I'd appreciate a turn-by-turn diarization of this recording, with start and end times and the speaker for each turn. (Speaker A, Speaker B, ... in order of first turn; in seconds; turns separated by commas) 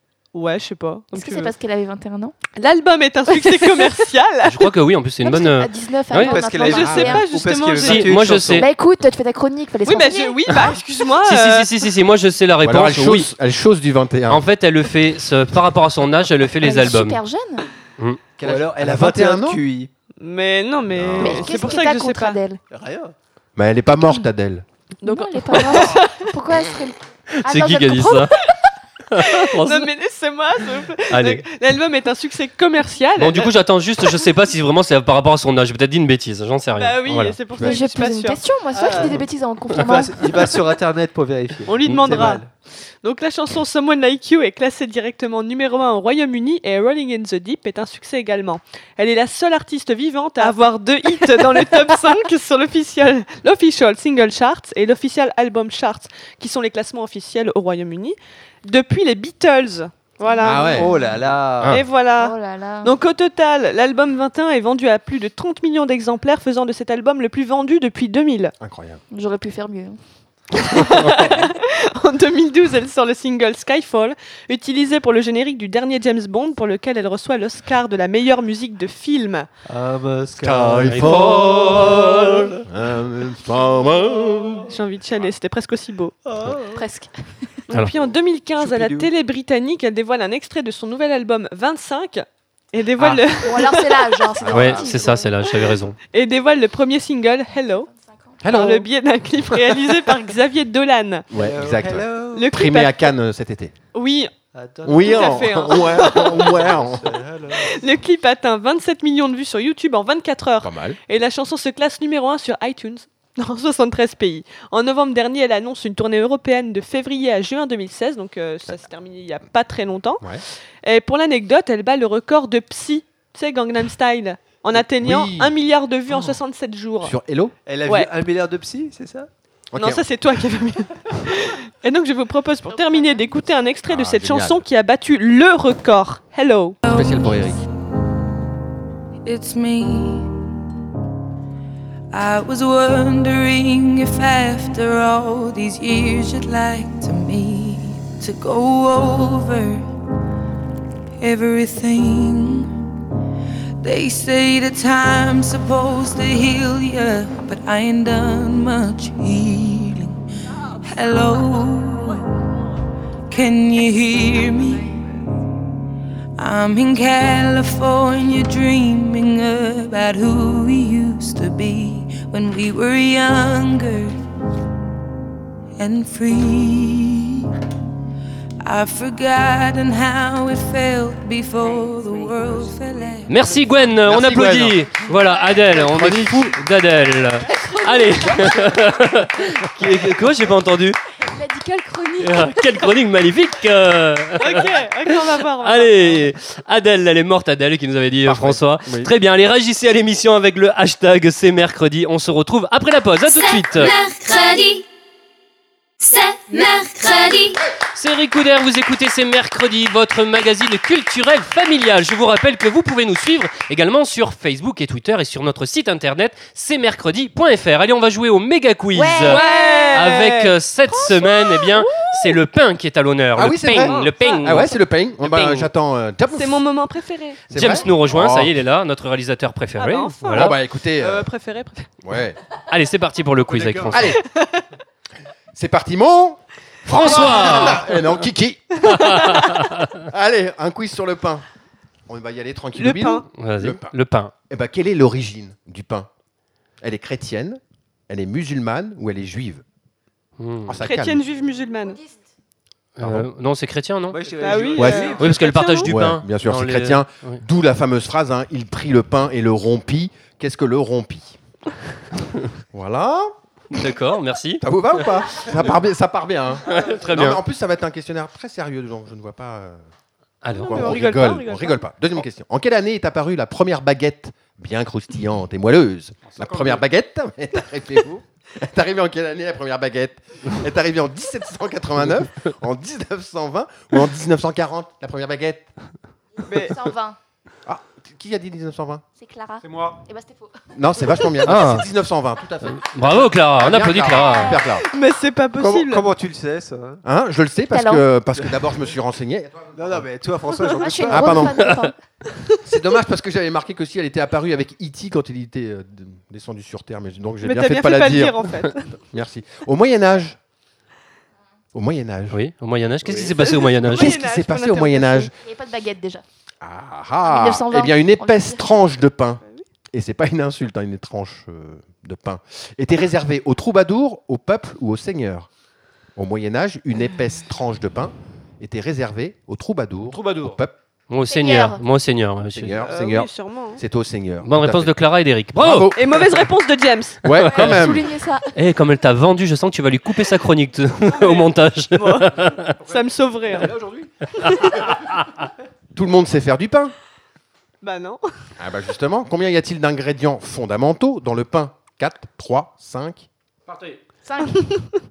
Speaker A: 0.3-1.5, Speaker B: 1.1-2.3, Speaker A: 2.5-4.7, Speaker C: 4.5-6.4, Speaker B: 5.2-7.2, Speaker D: 6.1-8.7, Speaker A: 6.5-8.3, Speaker E: 6.8-7.1, Speaker C: 7.8-8.7, Speaker B: 8.5-10.4, Speaker A: 9.8-11.9, Speaker C: 11.2-13.3, Speaker E: 12.6-14.4, Speaker C: 14.3-17.2, Speaker B: 16.6-17.7, Speaker E: 18.4-19.6, Speaker D: 18.4-19.9, Speaker A: 20.2-22.4, Speaker E: 20.9-21.6, Speaker B: 21.2-22.6, Speaker D: 22.7-23.1, Speaker E: 23.6-24.6, Speaker A: 25.0-26.3, Speaker B: 25.0-28.4, Speaker C: 27.4-28.4, Speaker C: 29.1-29.9, Speaker A: 29.2-33.5, Speaker C: 31.1-31.4, Speaker C: 33.1-37.4, Speaker A: 36.7-38.4, Speaker B: 37.6-40.5, Speaker D: 38.7-39.2, Speaker D: 39.8-42.5, Speaker A: 41.6-42.5, Speaker A: 43.0-60.9, Speaker B: 60.2-61.0, Speaker E: 60.4-60.9, Speaker D: 60.7-61.8, Speaker A: 61.7-68.5, Speaker B: 62.1-62.9, Speaker E: 68.6-69.0, Speaker B: 69.1-70.0, Speaker A: 70.5-79.5, Speaker E: 70.6-71.3, Speaker D: 79.7-82.6, Speaker E: 80.4-81.7, Speaker C: 80.8-82.4, Speaker E: 82.7-84.7, Speaker A: 84.7-86.2, Speaker D: 86.2-86.8, Speaker B: 86.7-87.1, Speaker A: 87.7-94.3, Speaker D: 87.8-89.1, Speaker B: 93.4-95.4, Speaker E: 94.4-95.2, Speaker C: 94.5-96.0, Speaker A: 95.7-97.9, Speaker B: 97.9-98.4, Speaker E: 98.4-98.9, Speaker A: 98.4-101.2, Speaker E: 101.3-103.7, Speaker D: 101.3-102.5, Speaker A: 102.3-103.1, Speaker A: 103.9-104.3, Speaker D: 104.5-107.8, Speaker E: 104.8-107.2, Speaker A: 105.0-106.7, Speaker A: 107.5-120.3, Speaker E: 110.6-111.0, Speaker A: 120.8-127.2, Speaker E: 124.7-125.5, Speaker E: 127.0-127.5, Speaker D: 127.7-129.3, Speaker A: 127.8-128.1, Speaker E: 129.7-130.0, Speaker A: 129.7-136.8, Speaker E: 133.8-134.6, Speaker F: 136.8-137.5, Speaker E: 136.8-137.6, Speaker F: 139.2-140.3, Speaker F: 142.1-149.9, Speaker F: 151.2-152.7, Speaker F: 153.8-160.2, Speaker F: 160.8-162.4, Speaker F: 163.3-165.1, Speaker F: 166.4-174.1, Speaker F: 175.8-177.5, Speaker F: 178.6-183.9, Speaker C: 183.3-191.0, Speaker E: 184.0-184.9, Speaker E: 185.7-186.5, Speaker B: 191.2-192.8, Speaker C: 192.2-203.9, Speaker A: 194.4-196.3, Speaker E: 198.2-199.1, Speaker G: 203.2-204.8, Speaker G: 206.0-207.6, Speaker C: 207.9-225.7, Speaker B: 218.9-220.2, Speaker A: 219.2-222.3, Speaker E: 223.3-226.6, Speaker A: 223.7-224.8, Speaker A: 226.3-227.8, Speaker E: 227.5-228.6, Speaker C: 227.5-230.5, Speaker A: 229.8-231.9, Speaker E: 230.3-231.3, Speaker E: 232.0-232.4, Speaker C: 232.7-234.2, Speaker E: 233.9-234.2, Speaker A: 234.0-234.6, Speaker E: 235.5-236.4, Speaker C: 236.8-238.1, Speaker E: 236.9-239.1, Speaker A: 237.0-237.7, Speaker C: 238.8-240.0, Speaker E: 240.0-241.4, Speaker E: 242.1-243.9, Speaker A: 242.8-243.3, Speaker C: 243.4-244.3, Speaker E: 244.5-246.1, Speaker E: 246.8-249.6, Speaker C: 250.4-250.8, Speaker E: 250.7-251.2, Speaker A: 250.8-252.0, Speaker C: 253.0-254.2, Speaker E: 253.0-253.3, Speaker D: 254.1-255.5, Speaker A: 254.4-256.0, Speaker E: 254.7-255.2, Speaker C: 255.2-257.4, Speaker E: 255.8-261.4, Speaker E: 262.7-263.8, Speaker C: 263.7-264.6, Speaker E: 264.6-269.8, Speaker C: 266.6-267.4, Speaker C: 270.4-271.0, Speaker A: 270.5-271.8, Speaker E: 270.7-285.7, Speaker A: 286.5-286.8, Speaker B: 286.5-287.2, Speaker E: 287.6-289.0, Speaker B: 289.2-290.5, Speaker E: 290.7-294.9, Speaker C: 291.4-291.9, Speaker C: 292.7-294.6, Speaker B: 294.1-294.7, Speaker A: 294.6-296.1, Speaker D: 295.5-297.0, Speaker E: 297.0-300.1, Speaker B: 297.7-298.0, Speaker D: 299.7-301.5, Speaker B: 300.8-301.9, Speaker E: 301.1-301.6, Speaker C: 301.6-301.9, Speaker E: 302.6-308.4, Speaker A: 307.4-308.9, Speaker E: 309.1-310.4, Speaker E: 311.7-312.4, Speaker C: 312.3-314.1, Speaker A: 313.2-315.3, Speaker E: 313.9-315.3, Speaker B: 315.2-316.2, Speaker E: 316.6-325.5, Speaker B: 317.2-318.7, Speaker E: 326.1-330.7, Speaker C: 331.1-332.8, Speaker B: 331.3-331.8, Speaker E: 332.5-334.9, Speaker A: 332.8-333.8, Speaker C: 334.4-336.1, Speaker E: 335.6-336.0, Speaker A: 335.9-337.7, Speaker E: 337.2-338.1, Speaker C: 337.5-337.9, Speaker B: 337.6-338.4, Speaker C: 338.5-342.8, Speaker A: 341.1-344.6, Speaker C: 344.4-345.3, Speaker E: 345.9-346.9, Speaker A: 347.8-348.2, Speaker E: 348.6-353.3, Speaker B: 354.2-354.9